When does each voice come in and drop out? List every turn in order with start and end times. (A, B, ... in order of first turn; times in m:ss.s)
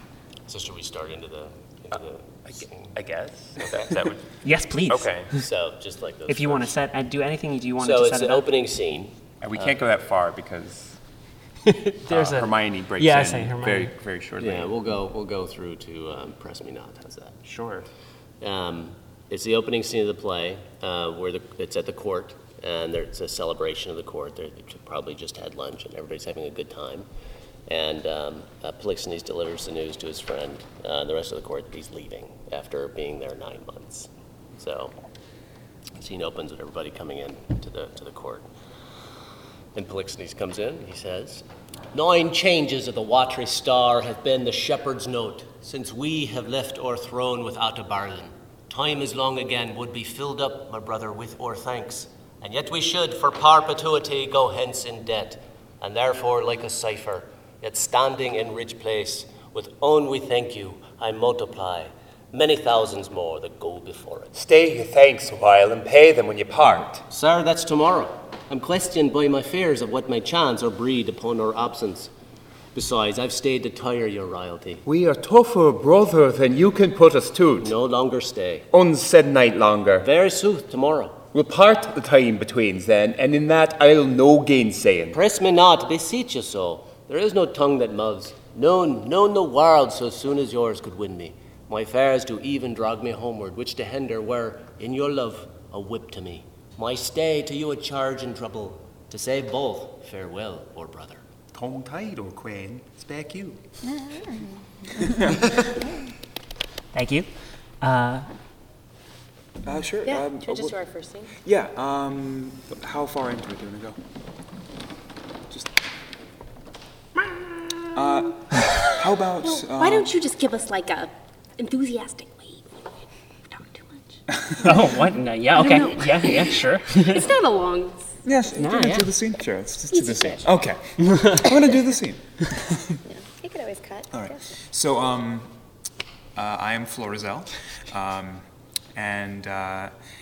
0:00.5-0:03.0 A
0:02.4-0:05.3 B
0:03.6-0:04.0 A
0:04.4-0:05.2 C
0:05.3-0:06.7 A
0:06.3-0:08.4 C
0:07.8-0:09.8 A
0:09.4-0:11.0 B
0:11.6-0:13.9 C
0:12.1-0:14.7 B
0:14.4-0:17.5 A
0:17.4-0:17.9 B
0:18.4-0:27.1 A
0:27.6-0:35.0 A
0:36.0-0:38.5 A
0:39.7-1:04.4 A
1:04.3-1:07.0 B
1:07.1-1:12.1 A
1:12.7-1:14.8 A
1:14.8-1:17.7 B
1:17.6-1:18.7 A
1:18.7-1:20.1 B
1:20.0-1:21.2 A
1:21.3-1:25.2 B
1:25.1-1:41.2 A
1:41.5-1:43.6 B
1:43.8-1:45.8 D
1:46.9-1:48.3 C
1:49.6-1:50.7 E
1:50.0-1:51.3 F
1:51.4-1:54.0 E
1:57.3-2:02.9 F
1:57.9-2:00.1 E
2:03.4-2:04.2 F
2:04.6-2:07.3 C
2:05.5-2:08.2 F
2:08.2-2:13.0 E
2:08.5-2:09.1 C
2:09.9-2:10.5 D
2:11.0-2:11.4 C
2:13.0-2:14.5 D
2:14.1-2:15.5 E
2:16.3-2:19.9 E